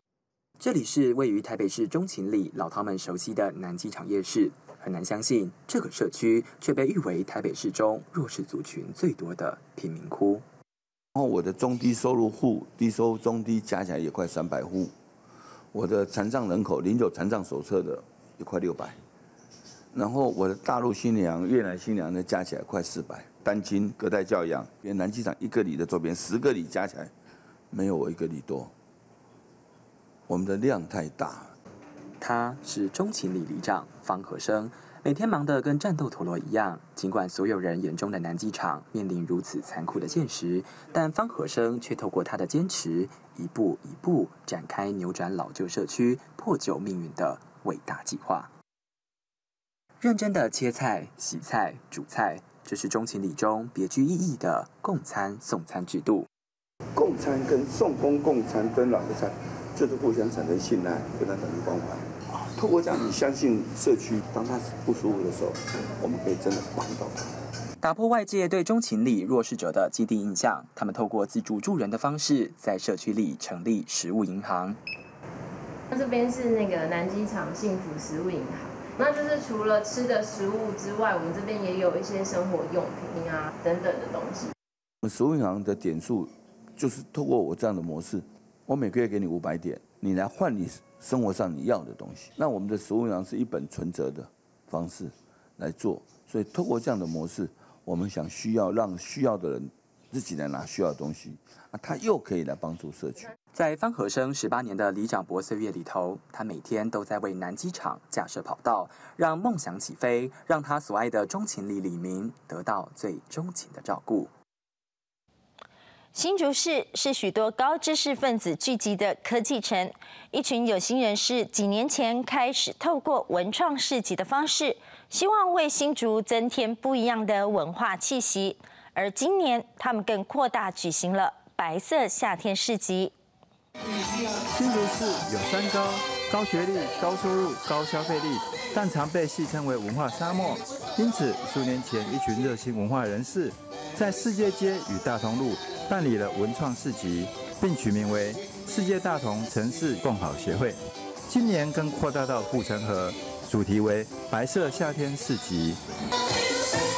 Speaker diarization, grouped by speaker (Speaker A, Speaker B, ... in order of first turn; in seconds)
Speaker A: 0.6-10.4, 32.2-48.5, 50.0-56.3, 67.8-74.8, 103.5-114.3
Speaker B: 11.2-14.9, 15.7-19.0, 19.9-27.1, 27.7-28.7, 30.3-31.5, 57.0-67.3, 85.0-103.3
Speaker C: 75.9-84.5
Speaker D: 116.1-133.1
Speaker E: 134.5-155.8